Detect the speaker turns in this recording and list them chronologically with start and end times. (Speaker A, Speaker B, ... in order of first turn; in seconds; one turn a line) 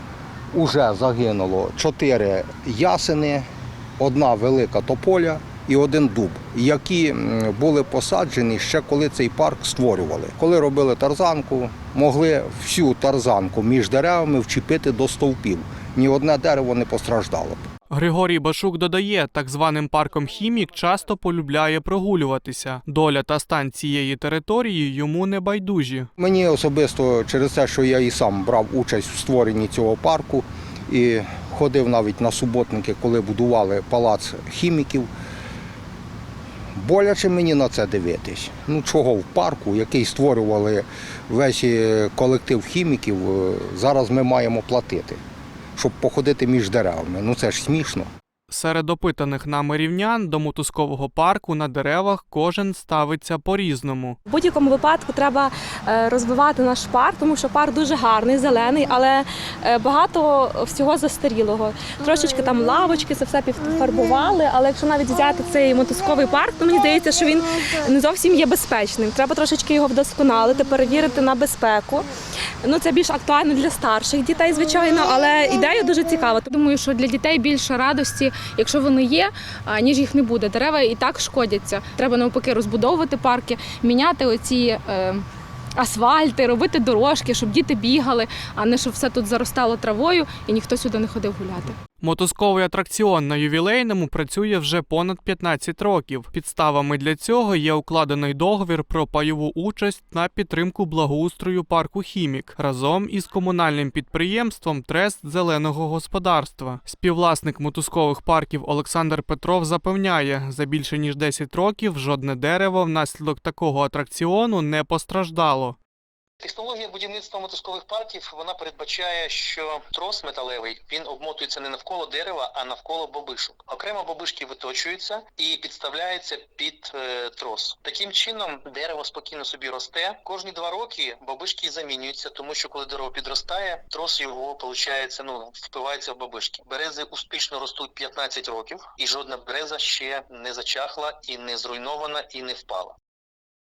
Speaker A: 0.5-3.5
Speaker A: 4.0-17.6
Speaker B: 17.9-26.1
Speaker A: 26.2-35.1
Speaker A: 36.7-45.2
Speaker A: 45.8-48.1
Speaker B: 48.5-54.2
Speaker C: 54.2-72.1
Speaker C: 72.6-76.4
Speaker D: 76.4-85.2
Speaker D: 85.8-91.7
Speaker B: 92.0-115.8
Speaker E: 116.4-142.9